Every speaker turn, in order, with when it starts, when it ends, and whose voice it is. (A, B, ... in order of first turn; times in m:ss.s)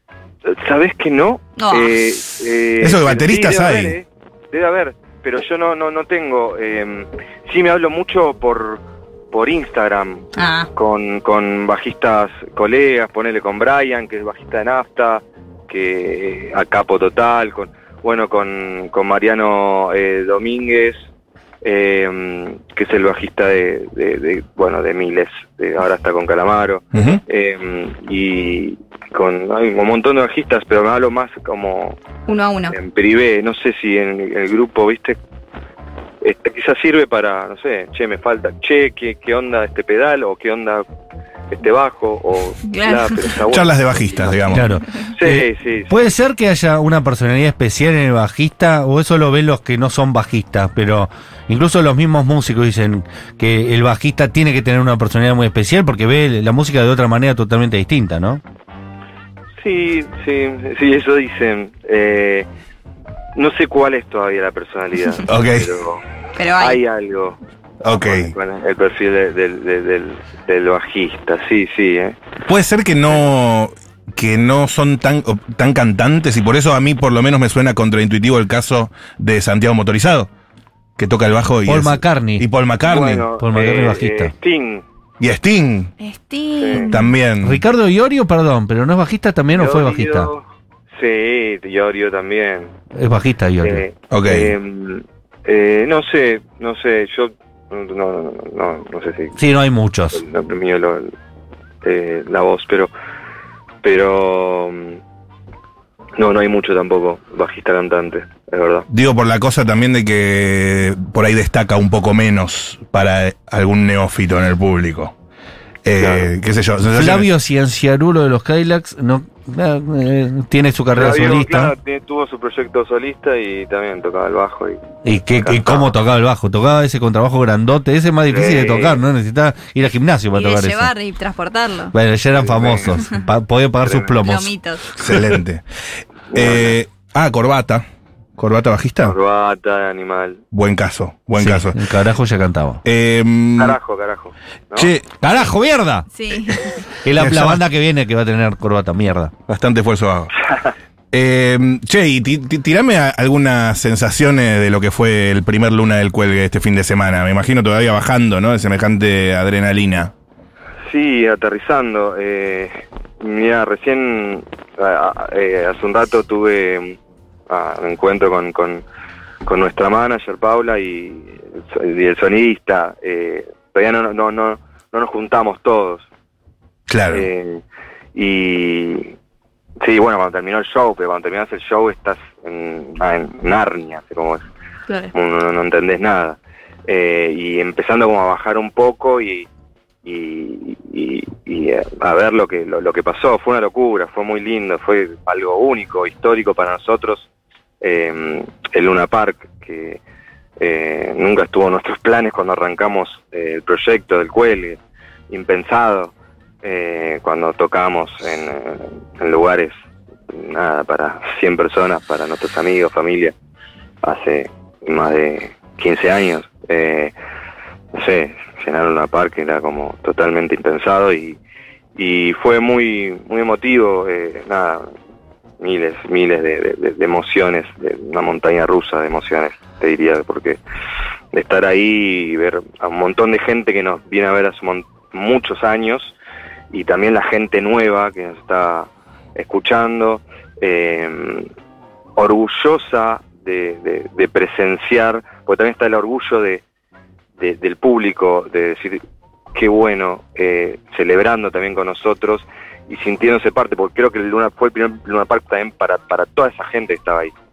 0:00.4-0:21.0 A
0:01.6-0:02.0 B
0:02.8-0:04.0 C
0:10.4-0:10.7 B
0:21.6-0:32.0 A
0:26.9-0:27.2 C
0:32.3-0:32.8 B
0:32.7-0:35.2 A
0:36.2-0:40.8 A
0:41.5-0:44.4 A
0:42.7-0:43.3 B
0:43.5-0:44.7 C
0:44.5-0:58.4 D
0:45.2-0:46.0 A
0:59.6-1:02.5 A
1:03.4-1:06.0 A
1:05.3-1:05.7 C
1:06.4-1:06.8 B
1:06.6-1:12.2 A
1:07.8-1:08.3 C
1:12.5-1:20.3 C
1:21.0-1:23.3 C
1:21.7-1:22.5 D
1:22.8-1:24.8 A
1:23.4-1:24.3 D
1:25.2-1:25.9 C
1:26.0-1:27.1 B
1:26.6-1:27.0 A
1:26.8-1:27.6 C
1:27.4-1:30.3 D
1:29.5-1:30.4 A
1:31.0-1:32.7 A
1:32.9-1:33.8 D
1:33.6-1:39.4 A
1:34.1-1:34.6 C
1:39.4-1:40.2 D
1:40.2-1:41.1 A
1:41.8-1:42.9 A
1:43.8-1:45.0 A
1:46.2-1:48.9 A
1:48.9-1:55.1 C
1:55.8-1:57.3 C
1:56.0-1:56.3 A
1:56.9-2:01.7 D
2:00.9-2:05.9 A
2:05.0-2:10.9 D
2:08.3-2:09.0 A
2:10.3-2:11.9 B
2:11.9-2:14.5 D
2:12.4-2:13.1 A
2:13.8-2:14.1 A
2:14.2-2:14.9 B
2:15.0-2:15.6 C
2:16.3-2:16.8 A
2:16.3-2:17.8 C
2:18.4-2:19.2 C
2:19.0-2:20.4 A
2:20.5-2:21.8 C
2:21.4-2:22.8 D
2:22.8-2:23.8 C
2:23.6-2:24.9 A
2:24.8-2:25.1 C
2:25.2-2:26.1 D
2:26.1-2:26.8 B
2:27.0-2:29.3 D
2:27.2-2:27.6 C
2:29.5-2:30.3 C
2:31.1-2:40.1 C
2:40.9-2:47.0 A
2:47.5-2:48.8 A
2:49.4-2:56.1 A
2:56.9-2:57.3 C
2:57.1-2:57.6 A
2:58.2-2:59.1 A
2:59.8-3:04.4 A
3:05.1-3:09.5 A
3:10.0-3:17.3 A
3:17.8-3:20.0 A
3:20.6-3:24.8 A
3:25.3-3:29.7 A
3:30.3-3:33.3 A
3:34.0-3:37.1 A
3:37.9-3:41.4 A
3:42.0-3:44.8 A
3:45.6-3:50.6 A
3:51.3-3:56.1 A
3:56.7-4:01.5 A
4:02.2-4:06.6 A
4:07.4-4:09.0 A
4:09.5-4:17.3 A